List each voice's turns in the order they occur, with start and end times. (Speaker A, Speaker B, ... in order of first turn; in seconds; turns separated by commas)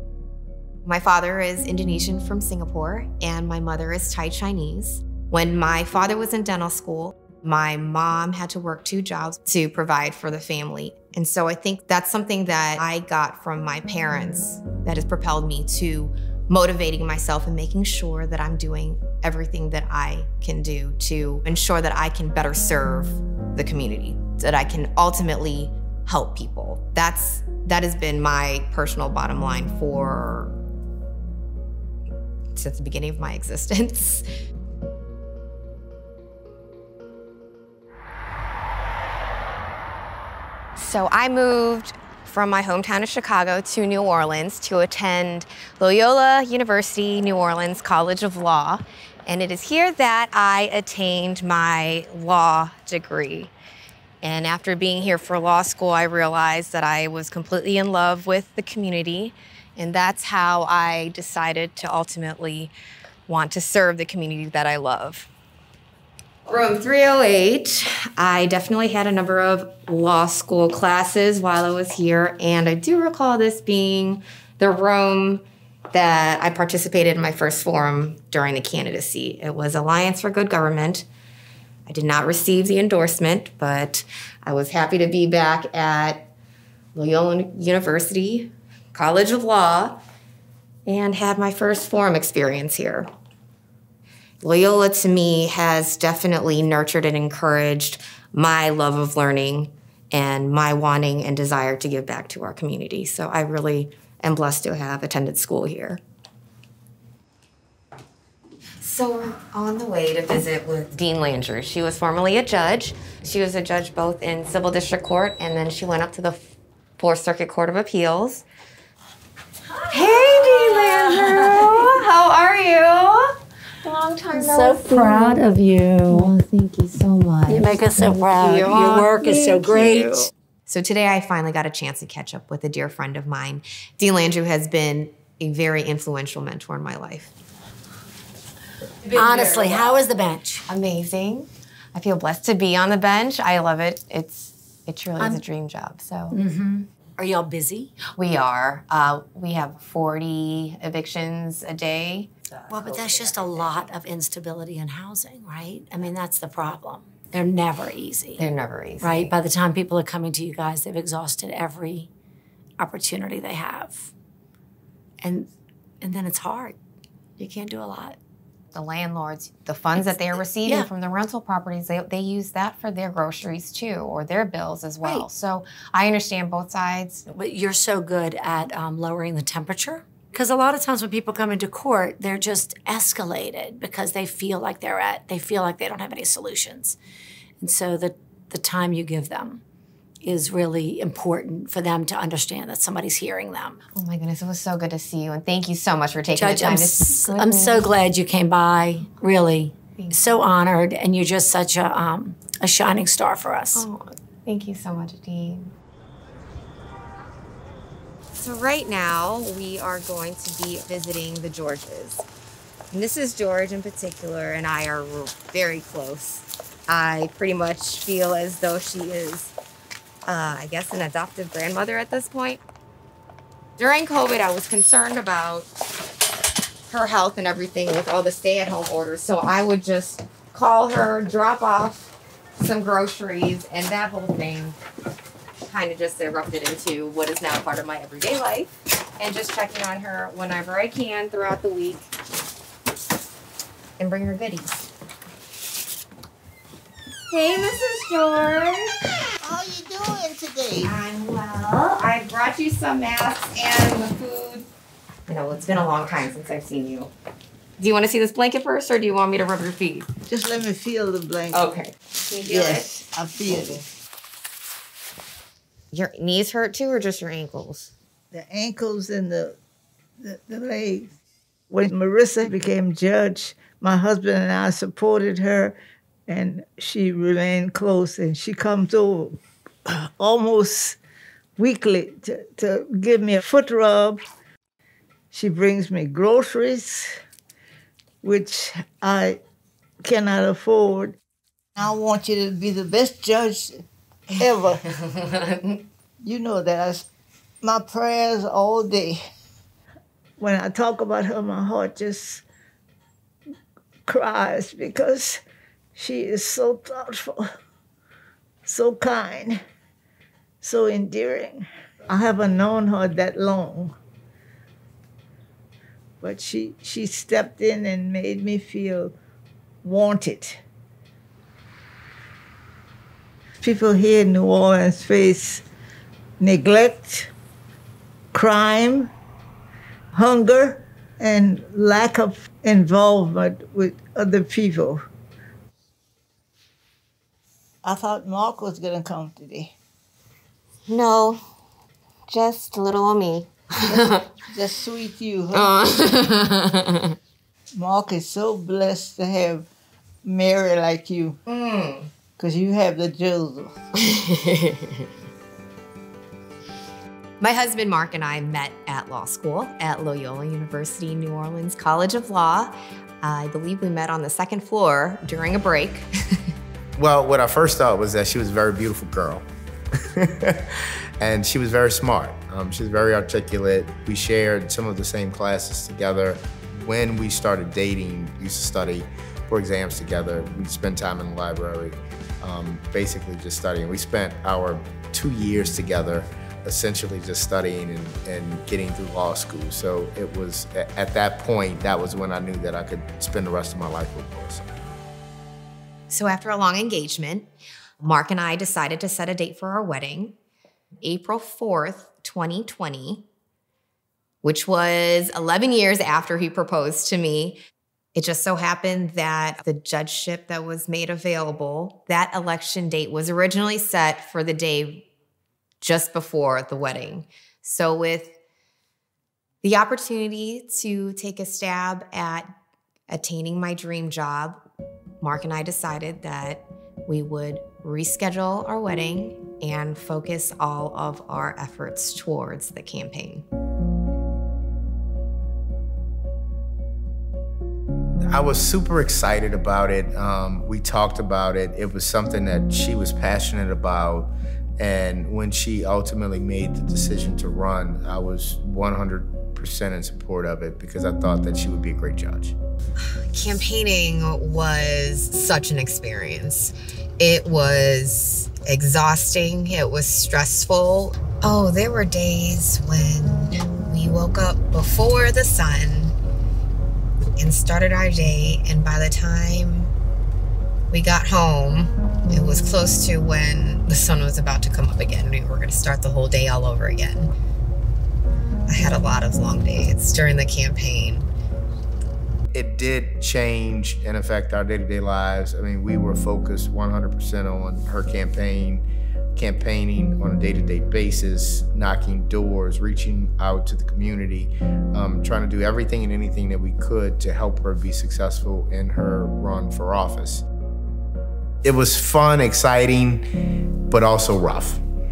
Speaker A: 0.8-30.6, Speaker A: 32.5-34.2, Speaker A: 40.8-53.5, Speaker A: 54.2-62.7, Speaker A: 63.3-65.3, Speaker A: 66.5-81.0, Speaker A: 81.9-86.3, Speaker A: 86.9-90.0, Speaker A: 90.8-93.1, Speaker A: 94.4-106.0, Speaker A: 108.8-118.4, Speaker A: 119.9-123.3, Speaker B: 120.0-121.2, Speaker A: 123.8-125.5, Speaker B: 124.3-126.3, Speaker A: 126.1-137.3, Speaker B: 127.5-130.3, Speaker A: 139.1-140.0, Speaker B: 139.1-140.6, Speaker A: 140.7-146.4, Speaker B: 146.3-147.9, Speaker A: 148.2-153.9, Speaker B: 152.7-158.4, Speaker A: 158.4-159.3, Speaker B: 159.0-162.1, Speaker B: 162.8-164.1, Speaker B: 165.2-165.5, Speaker B: 166.0-166.8, Speaker B: 167.4-168.2, Speaker A: 168.7-177.2, Speaker B: 177.3-186.9, Speaker B: 187.6-189.6, Speaker B: 190.2-193.8, Speaker A: 193.9-197.8, Speaker B: 196.3-203.9, Speaker A: 203.8-205.7, Speaker A: 208.3-212.2, Speaker A: 212.9-219.5, Speaker A: 220.3-222.6, Speaker A: 223.8-225.7, Speaker A: 226.9-234.8, Speaker A: 235.7-242.1, Speaker A: 244.0-244.8, Speaker A: 247.3-248.9, Speaker C: 249.4-250.9, Speaker A: 250.8-254.7, Speaker A: 255.3-257.1, Speaker A: 257.8-260.1, Speaker C: 260.3-261.6, Speaker A: 261.5-262.9, Speaker C: 262.4-263.8, Speaker A: 265.9-267.9, Speaker C: 268.3-269.6, Speaker C: 270.2-271.1, Speaker C: 271.7-275.8, Speaker C: 276.3-281.0, Speaker C: 281.6-284.2, Speaker C: 285.3-287.1, Speaker C: 288.2-289.4, Speaker C: 290.0-291.2, Speaker C: 291.8-293.8, Speaker C: 294.4-294.8, Speaker A: 295.1-295.8, Speaker C: 296.2-297.1, Speaker C: 297.6-299.2, Speaker C: 300.4-302.4, Speaker C: 304.1-305.4, Speaker C: 305.9-307.5, Speaker C: 308.6-309.6, Speaker C: 310.6-313.9, Speaker C: 316.2-319.1, Speaker C: 319.8-320.6, Speaker C: 323.6-325.6, Speaker C: 326.4-327.3, Speaker C: 328.3-329.1, Speaker C: 330.1-335.0, Speaker C: 337.8-339.8, Speaker A: 340.9-341.4, Speaker A: 342.3-344.2, Speaker C: 344.5-345.7, Speaker A: 345.5-347.1, Speaker C: 347.8-349.7, Speaker C: 350.2-351.4, Speaker A: 351.5-352.1, Speaker C: 352.4-353.7, Speaker A: 354.1-354.9, Speaker A: 357.4-366.1, Speaker D: 366.9-369.4, Speaker D: 370.1-394.7, Speaker A: 396.1-397.5, Speaker A: 398.0-400.4, Speaker A: 401.0-403.2, Speaker A: 404.4-407.6, Speaker A: 408.1-415.1, Speaker A: 415.8-418.4, Speaker A: 419.6-422.5, Speaker A: 423.1-424.6, Speaker A: 425.2-433.4, Speaker D: 438.3-452.5, Speaker A: 453.1-466.1, Speaker A: 467.4-469.9, Speaker A: 470.9-477.3, Speaker A: 478.7-481.3, Speaker D: 482.5-500.4, Speaker D: 501.6-503.2, Speaker D: 503.9-504.8